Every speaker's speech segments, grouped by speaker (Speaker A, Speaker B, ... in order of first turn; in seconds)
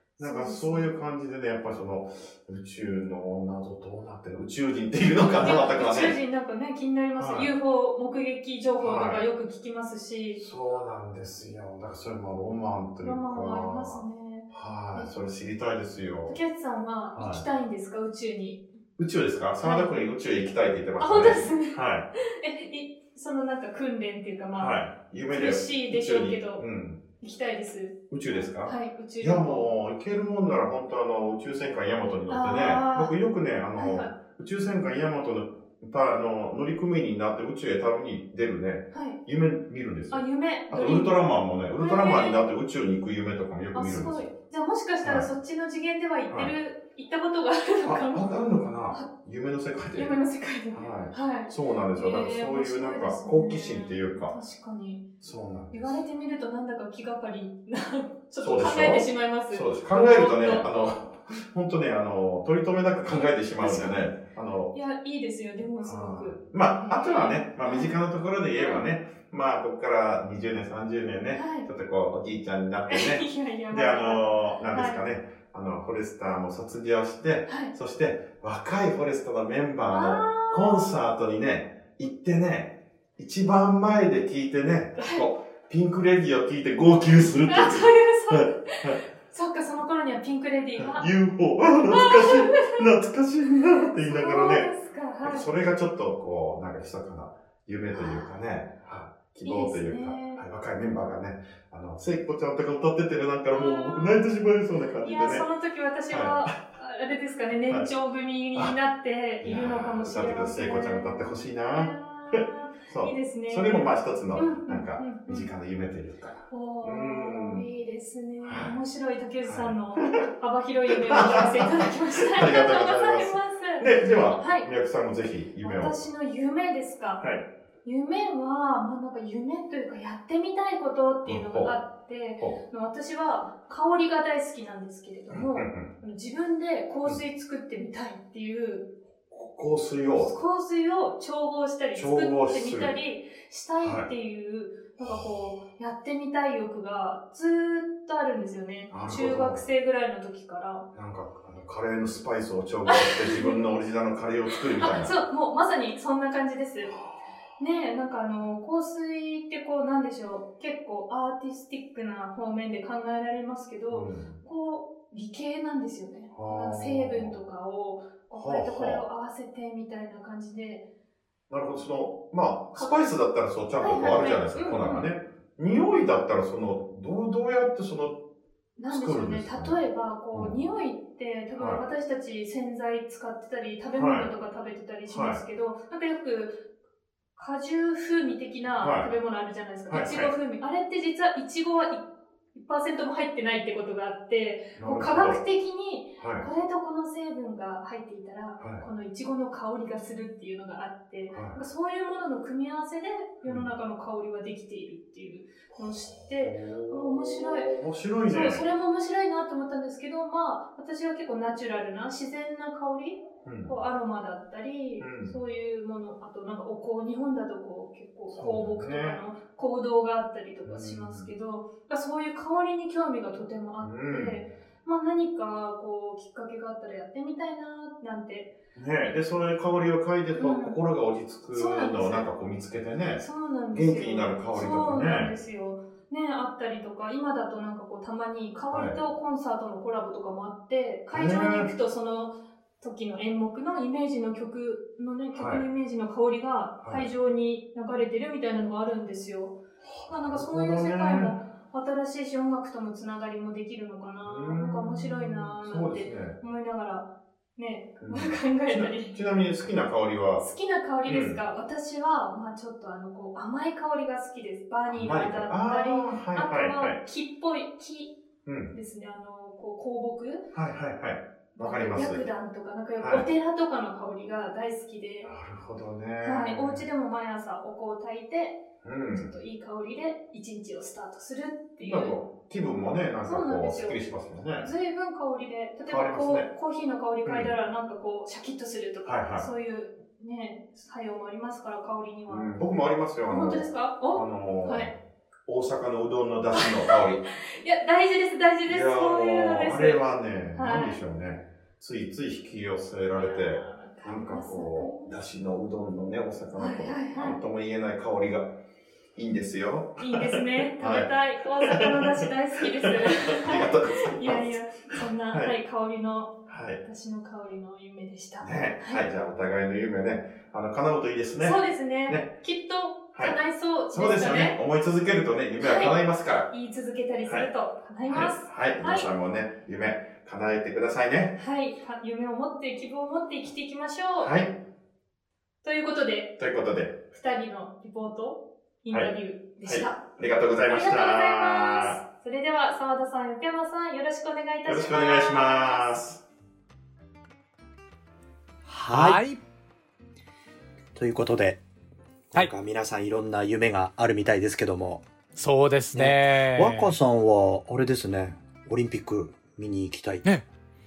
Speaker A: 0.2-0.9, 5.4-10.4, 13.0-15.1, 16.2-18.6, 19.6-19.9, 21.0-26.6, 27.2-29.7, 32.3-33.2, 33.8-34.2, 38.9-39.2, 40.1-42.5, 43.7-48.2, 48.9-49.2, 49.9-55.1, 55.7-60.7, 63.6-64.0, 64.7-68.0, 68.5-68.9, 71.3-71.7, 72.9-75.0, 77.5-77.7, 79.9-80.9, 85.0-85.3, 87.5-91.1, 91.9-92.9, 94.0-95.5, 97.9-98.3, 99.4-100.4, 103.5-104.2, 105.0-115.5, 116.5-124.7, 125.6-127.2, 127.8-138.9, 140.2-150.9, 152.8-153.6, 154.5-156.9, 157.6-170.8, 172.7-173.1, 173.8-175.1, 178.8-186.6, 187.3-207.7, 208.2-228.5, 230.3-230.8, 231.5-232.3, 233.2-259.2, 260.4-268.1, 268.7-270.5, 271.5-275.3, 276.2-282.2, 283.2-284.0, 284.6-292.5, 293.2-294.9, 296.5-300.0, 300.5-301.0, 303.1-305.1, 306.6-307.4, 310.0-319.0, 321.4-324.6, 325.6-329.1, 331.4-334.3, 335.6-336.4, 337.1-340.1, 340.6-346.0
Speaker B: 0.2-6.2, 7.2-7.5, 8.8-9.3, 10.4-16.4, 17.1-17.5, 19.0-22.1, 24.5-27.1, 28.1-44.3, 45.0-45.3, 46.3-46.5, 47.8-50.2, 50.7-54.4, 55.2-56.0, 58.4-64.7, 65.8-89.0, 90.8-94.7, 95.2-105.5, 106.1-106.7, 109.4-117.7, 118.4-118.8, 119.5-120.2, 120.9-126.0, 127.2-127.5, 131.2-131.8, 135.3-135.9, 139.3-140.3, 141.9-143.0, 143.8-144.1, 145.0-145.6, 148.9-149.6, 150.9-155.2, 156.9-157.1, 163.9-164.4, 166.3-167.3, 168.3-169.1, 171.5-178.2, 178.9-179.8, 180.3-180.6, 181.6-181.8, 183.9-184.3, 185.1-185.4, 188.7-189.1, 189.9-190.3, 194.8-195.4, 196.2-196.4, 198.6-198.8, 201.3-201.6, 203.4-203.7, 205.8-208.7, 213.4-213.8, 215.0-215.4, 218.3-219.2, 220.6-221.3, 223.8-224.4, 228.8-235.3, 238.7-239.0, 241.1-241.7, 245.3-245.7, 246.8-247.1, 249.8-251.3, 254.2-256.4, 258.0-260.5, 261.0-261.4, 264.9-267.0, 268.4-268.7, 270.5-272.3, 273.0-273.3, 275.2-276.9, 278.8-279.3, 281.8-284.7, 285.9-286.5, 287.2-287.5, 289.0-289.5, 292.3-294.9, 295.5-297.2, 298.6-308.5, 309.1-315.5, 316.5-316.8, 318.4-322.4, 323.1-326.5, 327.2-327.5, 328.1-331.4, 334.2-334.6, 336.4-337.0, 339.6-342.0, 344.6-346.2
Speaker C: 348.6-349.2, 350.9-351.6, 352.3-355.0, 355.9-360.2
Speaker D: 348.9-349.4, 355.4-356.9